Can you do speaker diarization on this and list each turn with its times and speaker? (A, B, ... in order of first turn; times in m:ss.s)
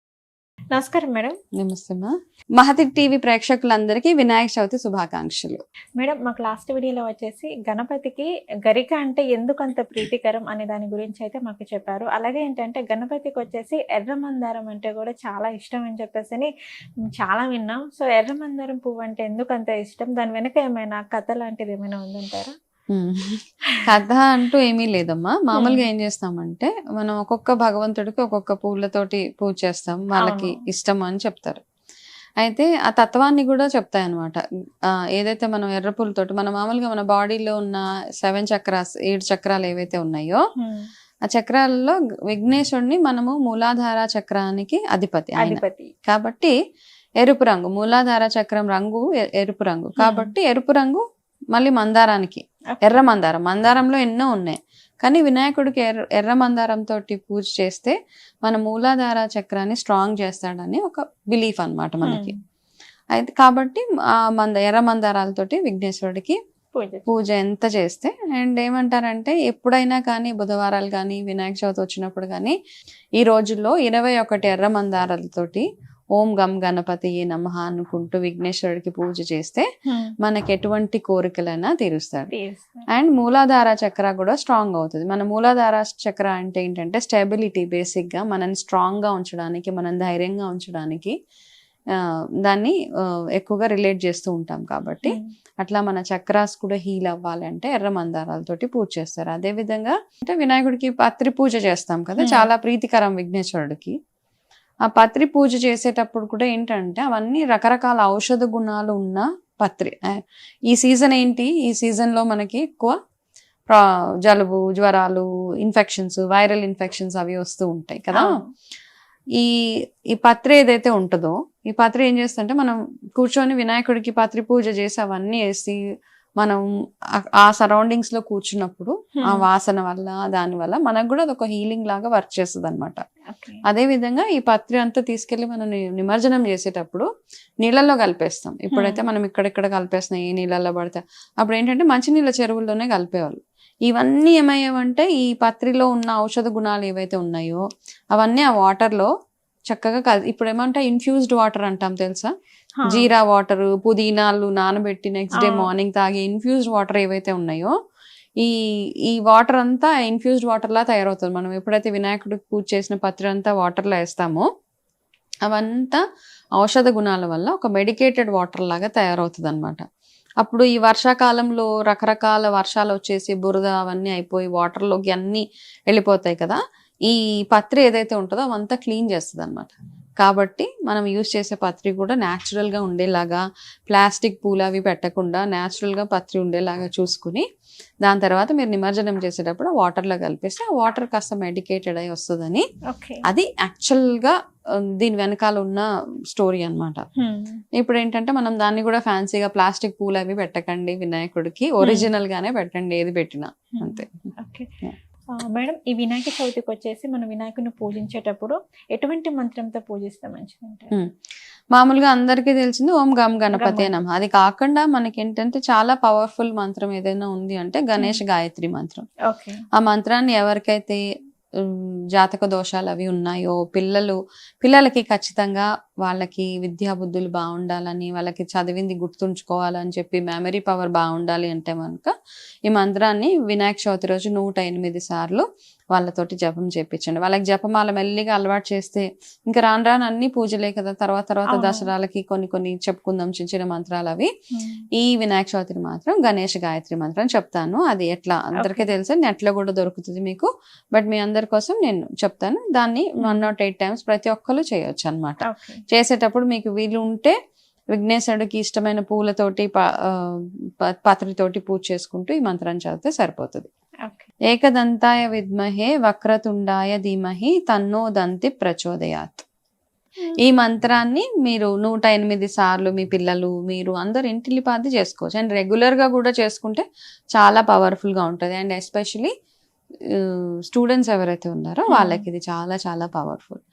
0:00.7-0:01.4 A
0:01.6-0:05.6 B
0:06.0-0:16.5 A
0:17.2-0:22.5 A
0:22.9-0:31.6 B
0:25.5-0:25.8 A
0:30.2-0:30.6 A
0:32.4-0:34.4 B
0:35.1-0:40.4 B
0:40.6-0:40.9 A
0:41.3-0:46.5 B
0:45.4-0:45.9 A
0:47.2-0:51.0 B
0:50.0-0:50.3 A
0:51.5-1:02.3 B
0:52.7-0:53.0 A
1:02.0-1:02.3 A
1:03.1-1:06.4 B
1:06.7-1:07.1 A
1:07.1-1:12.6 B
1:13.2-1:15.6 B
1:16.2-1:19.6 B
1:19.9-1:20.1 A
1:20.2-1:22.3 B
1:22.3-1:22.9 A
1:22.9-1:31.1 B
1:32.4-1:32.8 B
1:33.4-1:43.9 B
1:35.0-1:35.3 A
1:42.2-1:42.5 A
1:44.9-1:52.9 B
1:53.7-1:58.2 B
1:58.1-1:58.5 A
2:00.1-2:05.8 B
2:07.4-2:13.0 B
2:13.3-2:13.6 A
2:13.7-2:17.0 B
2:17.6-2:27.6 B
2:18.7-2:19.0 A
2:28.1-2:29.1 B
2:29.7-2:32.3 B
2:32.8-2:33.1 A
2:32.8-2:37.7 B
2:35.4-2:35.7 A
2:39.1-2:44.4 B
2:45.5-2:46.0 B
2:46.6-2:49.8 B
2:50.4-3:07.4 B
3:08.0-3:12.6 B
3:12.9-3:13.2 A
3:13.2-3:14.3 B
3:15.0-3:17.0 B
3:17.2-3:17.6 A
3:17.8-3:24.3 B
3:21.8-3:22.1 A
3:23.8-3:24.7 A
3:25.4-3:30.9 A
3:31.8-3:39.0 B
3:33.5-3:33.9 A
3:39.3-3:39.6 A
3:39.8-3:41.0 B
3:41.6-3:52.1 B
3:52.7-4:04.3 B
4:01.5-4:01.9 A
4:04.5-4:04.8 A
4:05.0-4:17.3 B
4:08.6-4:08.9 A
4:13.2-4:13.5 A
4:15.4-4:15.8 A
4:17.9-4:20.4 B
4:21.0-4:23.7 B
4:24.5-4:29.4 B
4:30.4-4:36.8 B
4:37.4-4:39.3 B
4:40.1-4:43.6 B
4:41.9-4:42.2 A